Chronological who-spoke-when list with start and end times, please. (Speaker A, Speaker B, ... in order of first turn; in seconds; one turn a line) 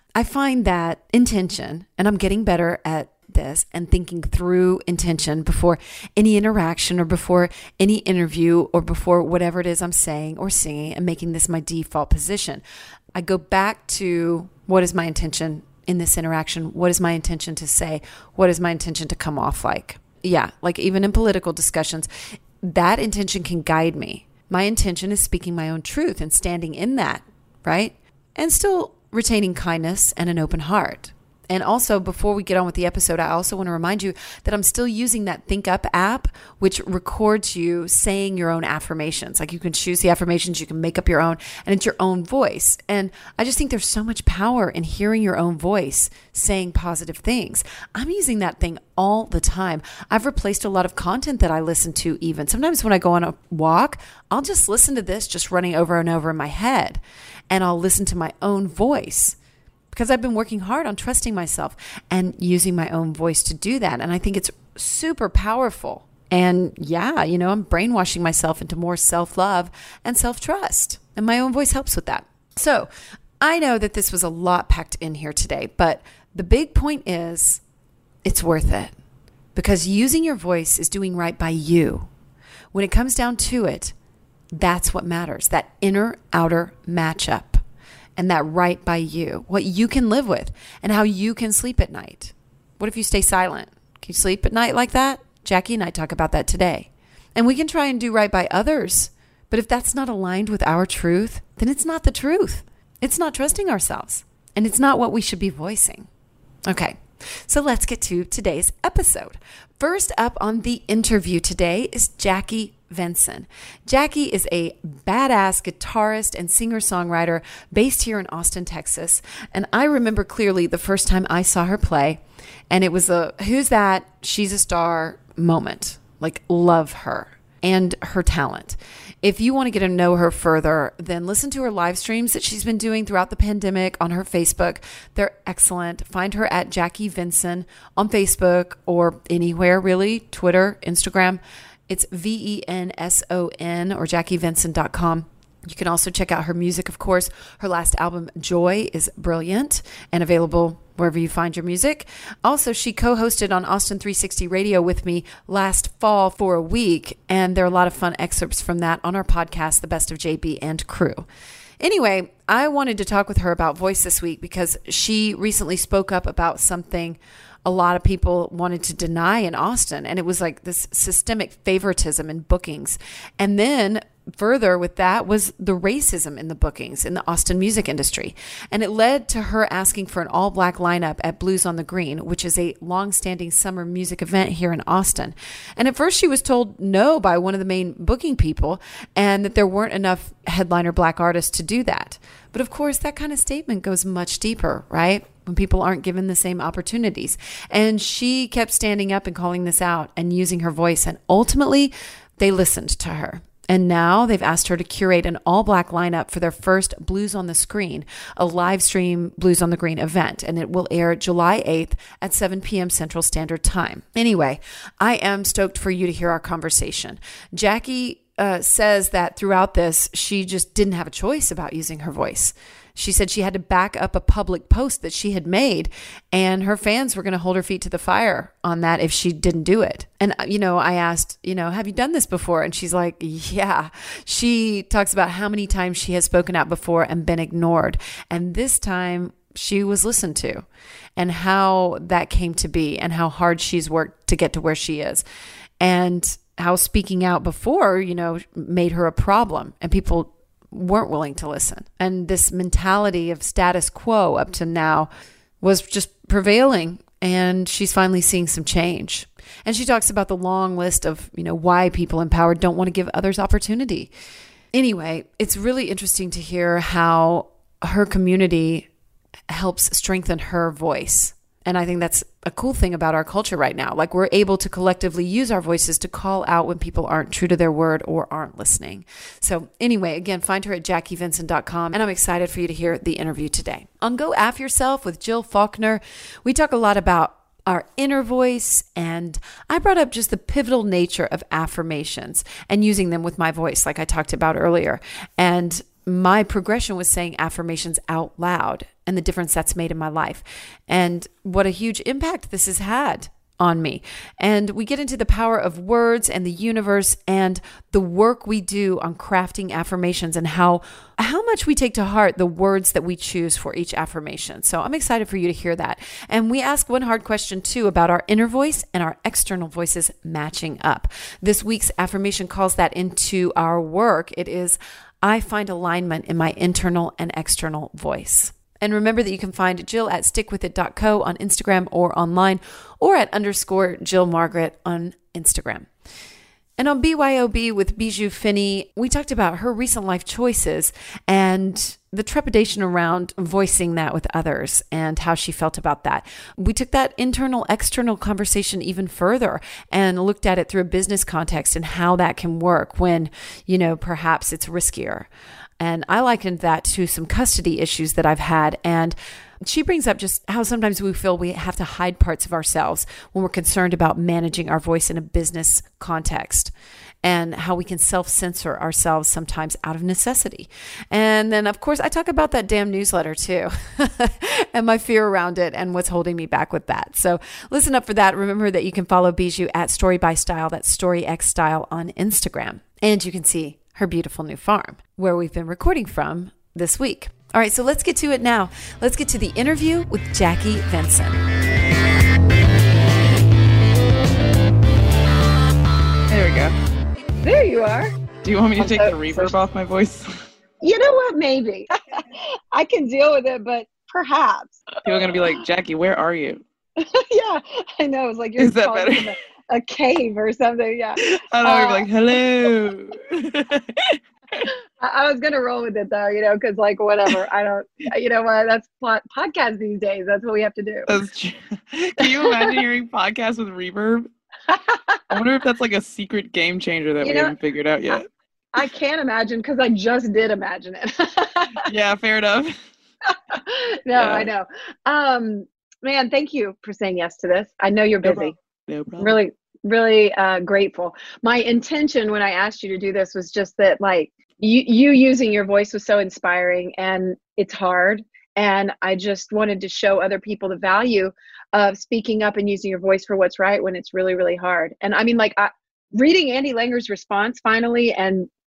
Speaker A: 0.1-12.6
Speaker A: 13.2-22.1
Speaker A: 22.6-59.4
Speaker A: 59.9-72.9
Speaker A: 73.4-77.6
Speaker A: 78.2-79.0
Speaker A: 79.5-82.1
Speaker A: 82.7-84.0
Speaker A: 84.5-87.6
Speaker A: 88.2-106.1
Speaker A: 106.7-161.2
Speaker A: 161.8-240.7
Speaker A: 241.2-245.2
Speaker A: 245.8-255.1
Speaker A: 255.6-264.1
Speaker A: 264.7-268.9
Speaker A: 269.5-335.9
Speaker A: 336.8-355.3
Speaker A: 355.8-391.4
Speaker B: 396.3-396.8
Speaker C: 397.4-398.1
Speaker B: 398.4-400.3
Speaker C: 398.8-399.5
Speaker C: 400.8-405.6
Speaker B: 405.0-406.6
Speaker C: 407.0-412.1
Speaker B: 408.6-409.3
Speaker B: 411.2-414.6
Speaker C: 414.6-421.1
Speaker B: 421.1-424.3
Speaker C: 422.2-422.8
Speaker C: 424.7-425.2
Speaker B: 425.3-428.3
Speaker C: 427.2-427.6
Speaker C: 428.7-431.9
Speaker B: 431.8-432.7
Speaker C: 433.3-438.6
Speaker B: 434.1-434.5
Speaker B: 438.2-439.4
Speaker C: 439.2-458.5